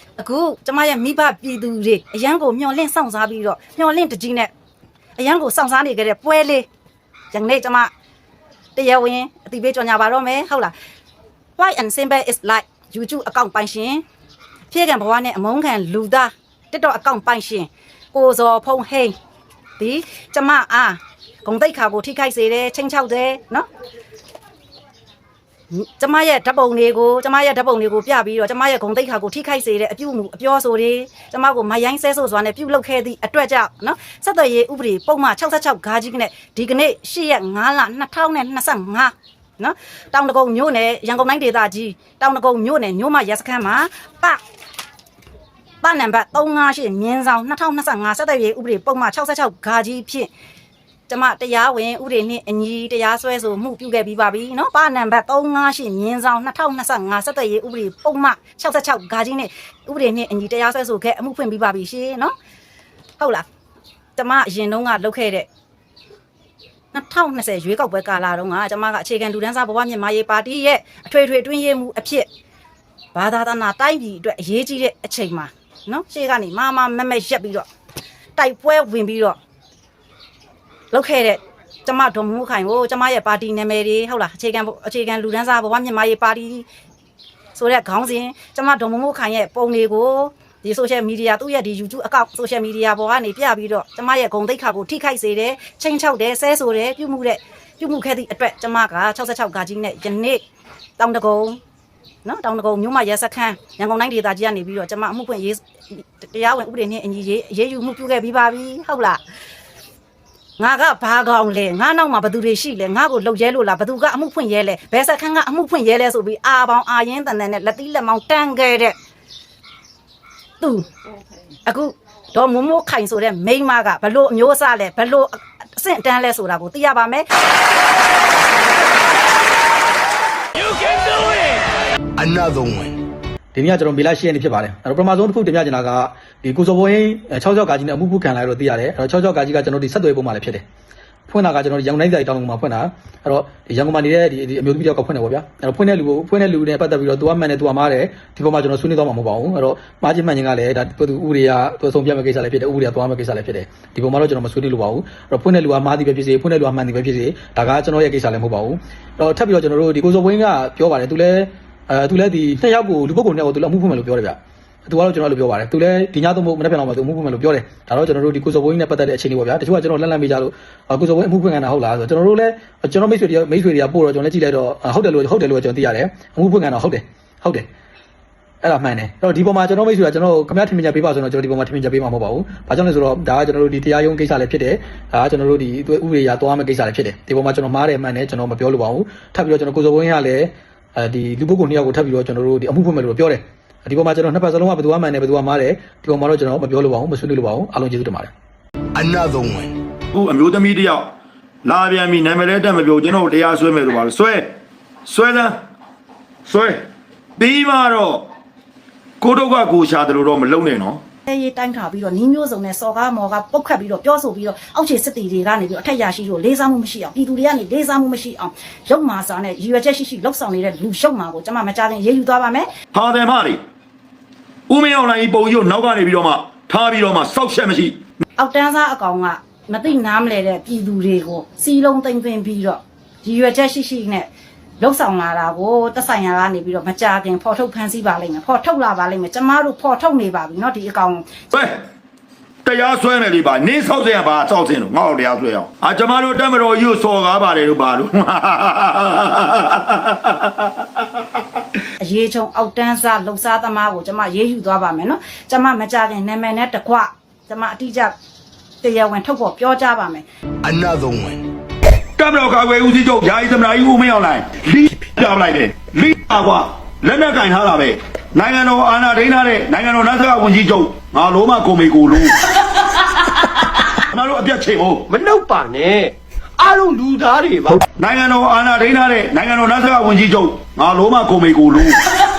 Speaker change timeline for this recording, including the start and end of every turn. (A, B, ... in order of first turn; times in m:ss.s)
0:00.2-0:04.5 A
0:05.2-0:06.7 A
0:07.3-0:07.9 A
0:08.8-0:10.7 A
0:11.6-0:14.0 A
0:14.7-0:19.2 A
0:19.8-0:23.7 A
0:25.7-0:44.4 A
0:45.8-0:50.3 A
0:51.1-1:02.3 A
1:03.2-1:03.5 A
1:04.2-1:05.5 A
1:06.9-1:12.3 A
1:13.1-1:17.7 A
1:18.4-1:19.4 A
1:20.9-1:26.7 A
1:27.6-1:40.4 A
1:41.0-1:41.6 A
1:42.2-1:49.2 A
1:50.6-1:59.0 A
2:00.6-2:00.9 A
2:01.6-2:07.3 A
2:12.2-2:13.0 B
2:13.5-2:20.6 C
2:21.3-2:57.7 C
2:58.6-3:18.3 C
3:19.0-3:19.8 B
3:20.1-3:21.1 D
3:21.6-3:24.5 D
3:25.1-3:25.6 D
3:26.5-3:26.8 D
3:27.4-3:28.3 D
3:29.2-3:31.0 D
3:31.3-3:42.7 A
3:42.9-3:43.6 D
3:44.7-3:48.0 D
3:48.4-4:01.5 A
4:02.6-4:10.9 D
4:12.0-4:18.2 A
4:18.8-4:20.2 A
4:20.6-4:21.4 B
4:22.2-4:32.4 D
4:33.9-4:35.1 D
4:35.1-4:37.8 E
4:38.0-4:42.0 D